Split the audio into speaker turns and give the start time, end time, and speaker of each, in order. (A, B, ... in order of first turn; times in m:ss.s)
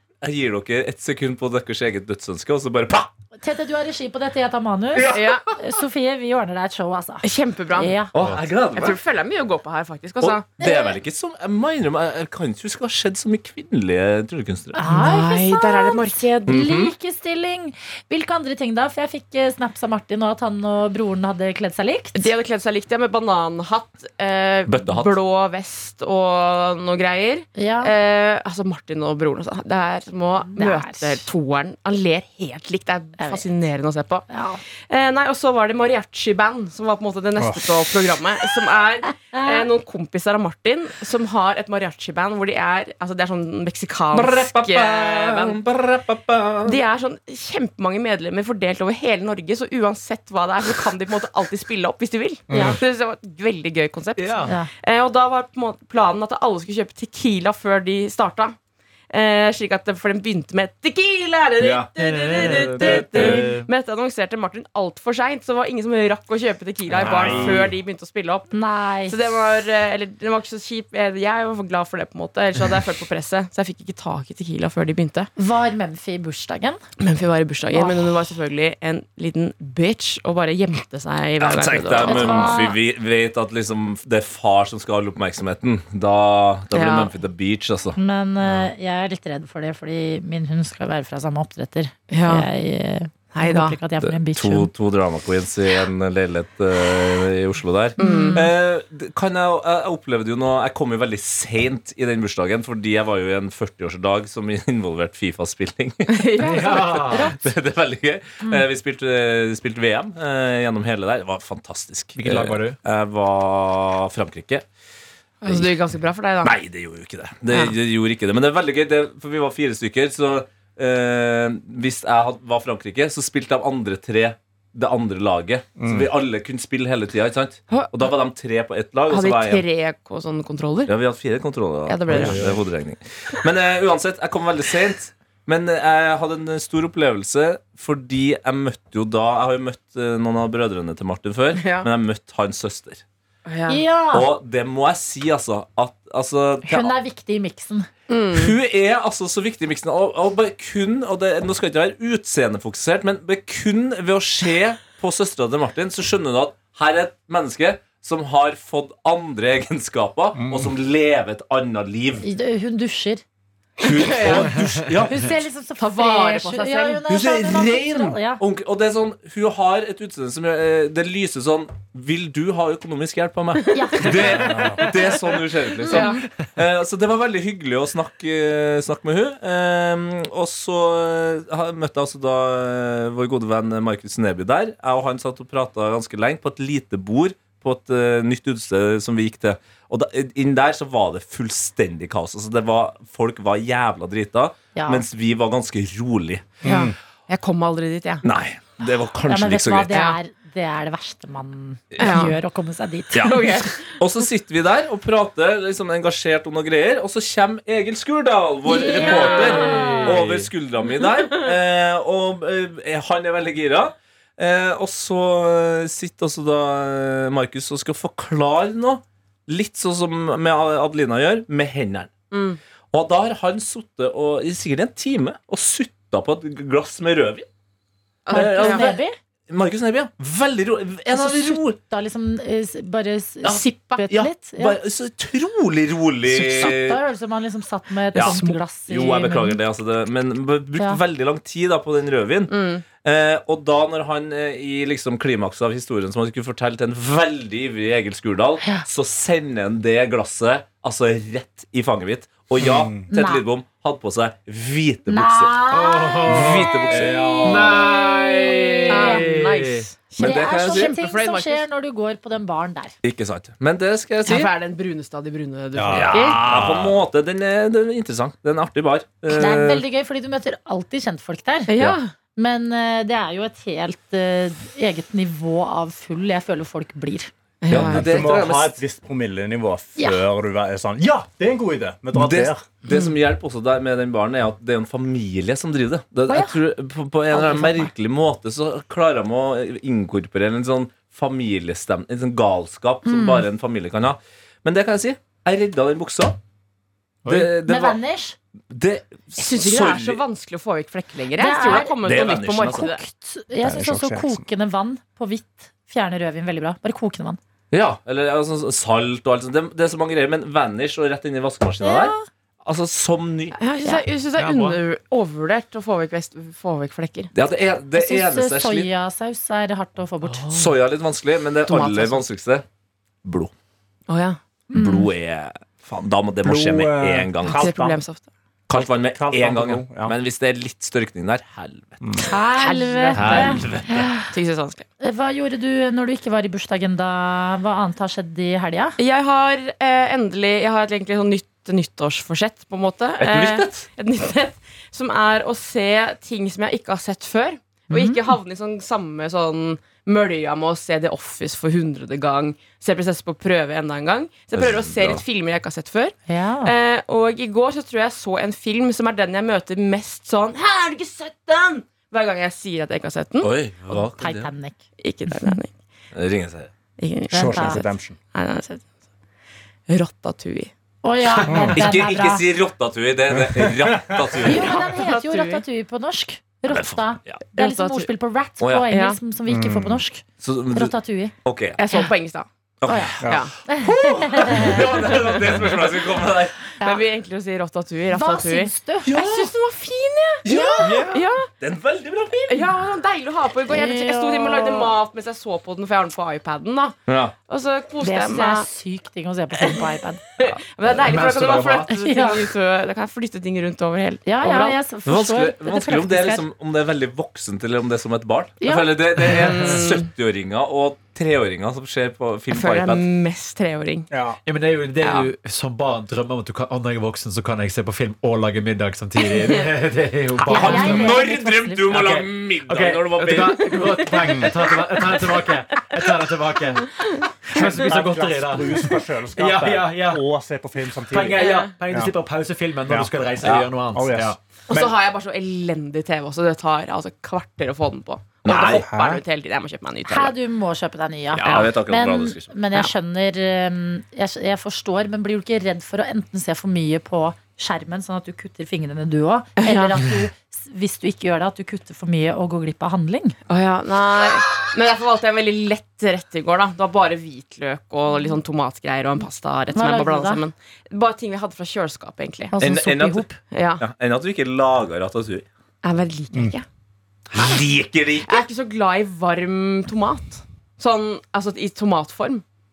0:00.2-0:03.1 A
0:03.4-0:08.1 B
0:04.9-0:05.6 A
0:05.1-0:05.5 C
0:07.2-0:08.0 C
0:08.1-0:09.0 A
0:08.7-0:10.4 C
0:10.2-0:14.8 A
0:10.6-0:11.0 B
0:14.7-0:22.3 B
0:14.8-0:16.5 C
0:16.5-0:16.9 A
0:22.1-0:45.6 C
0:24.7-0:25.1 A
0:27.6-0:27.9 B
0:30.5-0:31.2 B
0:34.3-0:34.6 B
0:37.4-0:37.8 D
0:39.3-0:39.7 B
0:44.1-0:46.8 A
0:46.6-0:58.6 C
0:52.5-0:52.8 D
0:52.5-0:52.8 B
0:54.2-0:54.6 E
0:59.1-1:08.5 C
1:01.6-1:03.4 A
1:02.0-1:03.7 E
1:06.9-1:07.7 A
1:07.0-1:07.7 D
1:08.5-1:09.2 B
1:09.1-1:15.3 C
1:15.4-1:16.8 B
1:17.0-1:22.7 C
1:17.7-1:18.2 B
1:21.4-1:28.6 A
1:22.0-1:22.8 B
1:26.7-1:27.1 C
1:28.0-1:34.7 B
1:32.1-1:32.5 C
1:33.3-1:33.8 C
1:34.0-1:54.6 A
1:38.0-1:38.5 C
1:38.0-1:38.5 B
1:46.1-1:47.3 C
1:46.4-1:47.4 E
1:47.1-1:47.4 B
1:52.2-1:52.8 E
1:55.4-1:56.5 C
1:55.5-1:55.7 A
1:56.4-2:09.6 A
2:05.8-2:06.1 D
2:07.7-2:08.1 C
2:09.1-2:10.9 C
2:10.9-2:23.0 A
2:11.9-2:12.6 C
2:12.1-2:12.6 D
2:21.5-2:21.9 C
2:23.4-2:23.8 C
2:23.7-2:24.3 B
2:24.1-2:26.9 A
2:26.6-2:27.9 B
2:28.1-2:28.5 C
2:28.3-2:42.2 A
2:40.4-2:40.7 D
2:42.2-2:43.2 B
2:43.8-2:45.3 A
2:43.8-2:44.5 C
2:45.1-2:48.4 B
2:45.8-2:47.0 C
2:47.1-3:16.6 A
2:53.7-2:55.2 C
2:53.7-2:55.1 B
2:55.8-2:56.2 B
2:55.8-2:56.2 C
3:14.7-3:15.0 B
3:16.6-3:16.9 D
3:16.6-3:18.2 C
3:18.2-3:19.9 A
3:19.3-3:23.6 B
3:19.9-3:20.2 C
3:21.9-3:22.2 A
3:22.0-3:22.4 C
3:23.1-3:42.1 A
3:23.2-3:23.9 C
3:28.6-3:30.2 B
3:28.8-3:30.0 C
3:42.3-3:42.6 C
3:42.9-3:47.5 A
3:48.2-3:48.9 C
3:48.3-3:49.2 B
3:48.3-3:51.8 A
3:51.1-3:54.8 B
3:53.4-3:57.0 A
3:53.6-3:54.0 C
3:56.5-3:59.6 B
3:58.1-4:15.6 A
3:58.2-3:58.6 C
4:02.5-4:02.8 C
4:12.6-4:13.0 D
4:13.1-4:13.4 B
4:15.1-4:19.3 B
4:15.7-4:16.7 E
4:16.3-4:17.7 A
4:16.9-4:17.7 D
4:17.4-4:19.9 E
4:18.9-4:21.6 C
4:20.2-4:20.9 A
4:20.2-4:22.9 B
4:23.0-4:24.5 A
4:24.2-4:26.4 C
4:25.7-4:27.0 D
4:25.9-4:29.8 A
4:29.3-4:31.7 B
4:31.7-4:32.1 C
4:32.4-4:37.3 B
4:37.6-4:38.3 C
4:37.7-4:38.8 A
4:37.7-4:42.6 D
4:40.0-4:40.2 B
4:42.1-4:56.4 A
4:46.3-4:46.6 B
4:47.3-4:47.9 B
4:53.0-4:53.4 B
4:57.3-4:58.0 A
4:57.6-4:58.4 B
4:58.7-5:00.2 A
4:59.4-5:03.0 C
5:01.4-5:07.4 B
5:01.7-5:02.9 A
5:03.6-5:04.4 D
5:07.7-5:13.6 A
5:11.8-5:12.2 B
5:13.5-5:17.3 C
5:14.4-5:14.8 E
5:17.3-5:18.9 A
5:17.9-5:20.5 B
5:20.3-5:20.7 C
5:20.5-5:22.6 A
5:21.6-5:22.2 C
5:23.2-5:23.5 A
5:24.1-5:24.4 C
5:24.7-5:25.1 B
5:24.7-5:27.7 A
5:26.4-5:28.0 D
5:27.4-5:28.2 C
5:28.7-5:32.1 A
5:28.7-5:30.1 D
5:32.0-5:32.3 D
5:32.2-5:34.2 B
5:32.6-5:34.8 C
5:33.1-5:34.1 A
5:35.0-5:39.0 B
5:39.0-6:03.5 C
5:43.2-5:43.9 A
5:47.9-5:48.3 B
5:54.5-5:55.2 A
5:56.3-5:56.7 B
6:03.4-6:04.5 A
6:03.9-6:04.8 B
6:05.0-6:05.7 C
6:06.1-6:06.7 A
6:07.0-6:08.9 C
6:07.3-6:07.8 B
6:07.3-6:08.2 D
6:09.9-6:10.7 C
6:11.0-6:12.4 B
6:11.5-6:11.8 D
6:11.7-6:14.8 A
6:13.3-6:14.4 D
6:14.4-6:21.3 B
6:14.5-6:15.6 C
6:16.7-6:17.4 A
6:17.5-6:18.1 C
6:18.6-6:18.9 A
6:18.9-6:19.2 C
6:19.5-6:20.0 D
6:20.4-6:20.9 A
6:21.4-6:21.8 A
6:21.8-6:22.4 C
6:22.8-6:26.6 A
6:22.9-6:24.9 B
6:23.2-6:23.5 C
6:24.7-6:25.6 C
6:26.8-6:31.5 C
6:28.1-6:29.2 B
6:29.1-6:29.5 A
6:30.4-6:32.7 A
6:30.5-6:31.1 B
6:32.4-6:38.6 C
6:33.7-6:34.9 B
6:37.1-6:37.3 A
6:38.0-6:40.3 B
6:39.6-6:44.8 C
6:40.8-6:41.9 E
6:41.9-6:42.5 B
6:44.2-6:46.4 B
6:45.0-6:53.0 A
6:48.6-6:48.9 B
6:49.2-6:50.1 C
6:52.5-6:54.1 C
6:54.1-6:54.4 D
6:54.4-7:01.3 E
7:00.4-7:04.0 A
7:00.4-7:02.1 B
7:01.9-7:10.2 E
7:07.5-7:12.1 D
7:11.1-7:14.4 E
7:11.4-7:11.7 C
7:12.9-7:14.9 D
7:13.4-7:13.7 A
7:14.7-7:20.4 C
7:18.4-7:18.8 A
7:18.6-7:19.2 D
7:20.1-7:33.4 B
7:21.4-7:22.5 A
7:29.6-7:30.0 C
7:33.5-7:42.5 C
7:39.7-7:40.4 B
7:42.5-7:43.4 B
7:42.6-7:43.3 A
7:43.5-7:43.8 C
7:43.8-7:45.4 A
7:45.8-7:46.6 C
7:47.3-7:48.4 A
7:47.4-7:47.6 C
7:48.2-7:52.4 C